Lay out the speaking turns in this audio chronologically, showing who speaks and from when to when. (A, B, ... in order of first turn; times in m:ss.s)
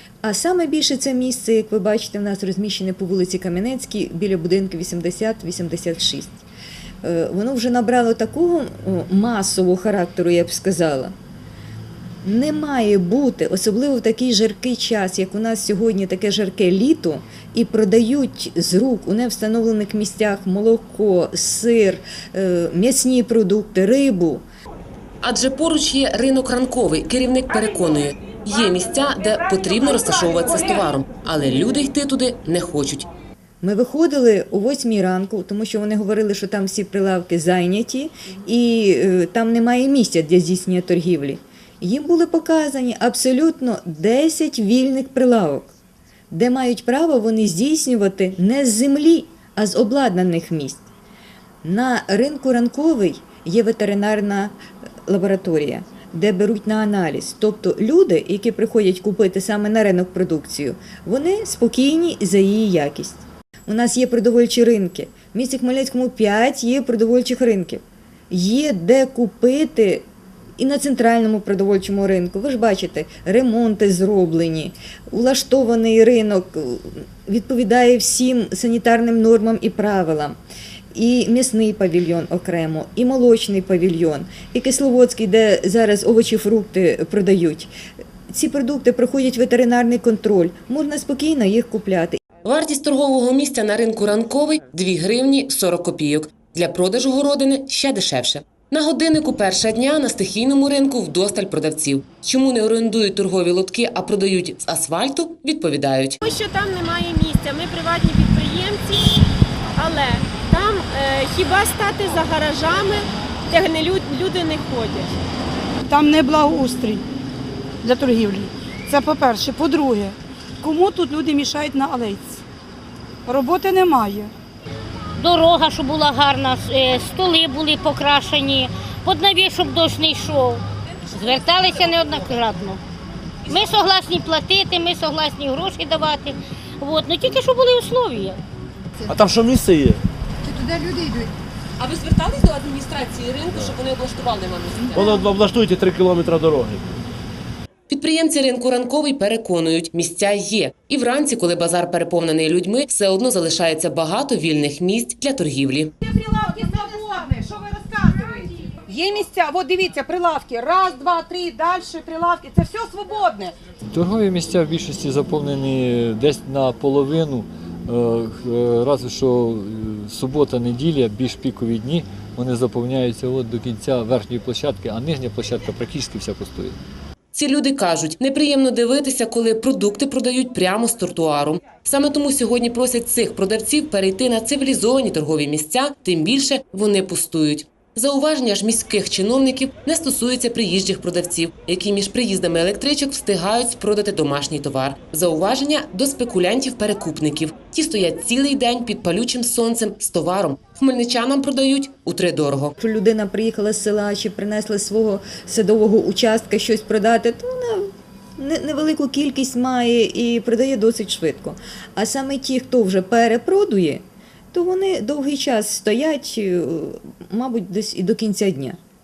0:00.2-0:06.4 A
0:07.0-0:11.1 A
0:12.2-0:24.4 A
0:25.2-0:33.1 B
0:33.6-0:45.7 A
0:46.3-0:50.8 A
0:51.6-1:10.0 A
1:10.6-1:20.4 A
1:20.9-1:27.7 A
1:28.3-1:32.2 A
1:32.4-1:46.2 B
1:46.2-1:55.2 C
1:55.9-1:57.0 D
1:57.8-2:02.4 D
2:03.3-2:04.3 D
2:05.2-2:10.6 E
2:11.1-2:12.8 E
2:13.5-2:18.4 E
2:19.1-2:20.0 F
2:20.5-2:21.2 G
2:21.8-2:25.2 B
2:24.9-2:26.8 F
2:27.9-2:35.9 B
2:36.0-2:43.5 G
2:43.9-2:56.8 H
2:57.3-3:22.7 B
3:22.8-3:38.8 A